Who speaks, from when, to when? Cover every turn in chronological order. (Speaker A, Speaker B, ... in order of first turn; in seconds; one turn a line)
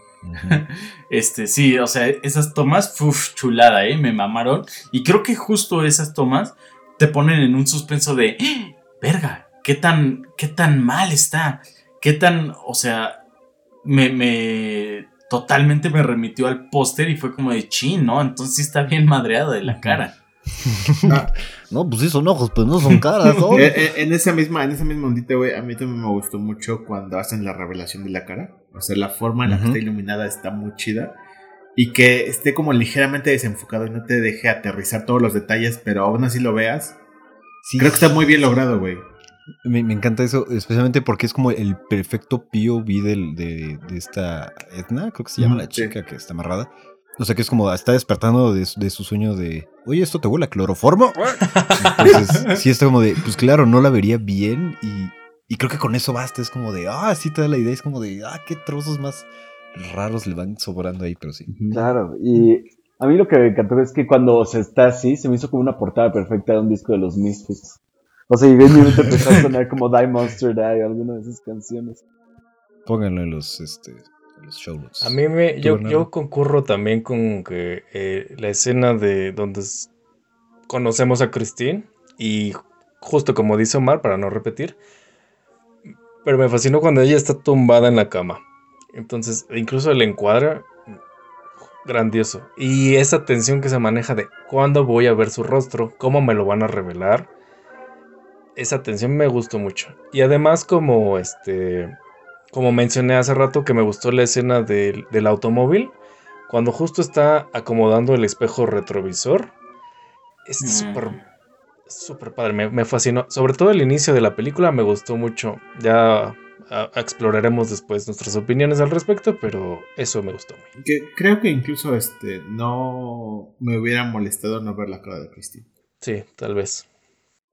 Speaker A: 0.2-0.6
Speaker B: 0.5-13.2
Speaker B: 13.8-20.1
Speaker A: 20.6-21.2
Speaker C: 21.1-21.3
Speaker A: 21.7-23.7
Speaker C: 23.5-31.2
Speaker A: 29.4-29.8
Speaker C: 31.8-37.0
Speaker A: 37.6-38.2
Speaker C: 37.8-39.0
Speaker A: 39.6-61.5
Speaker C: 45.4-45.9
Speaker B: 51.5-52.6
Speaker C: 61.5-61.8
Speaker D: 61.7-67.8
Speaker D: 68.3-72.0
Speaker A: 72.9-76.1
Speaker E: 75.0-79.9
Speaker E: 80.7-84.8
Speaker E: 86.2-88.4
Speaker E: 88.9-90.7
Speaker E: 91.8-97.3
Speaker E: 98.6-102.0
Speaker E: 102.5-105.9
Speaker E: 106.5-109.5
Speaker E: 110.5-111.2
Speaker B: 110.6-111.2
Speaker E: 111.9-120.7
Speaker C: 120.8-125.7
Speaker E: 126.0-126.8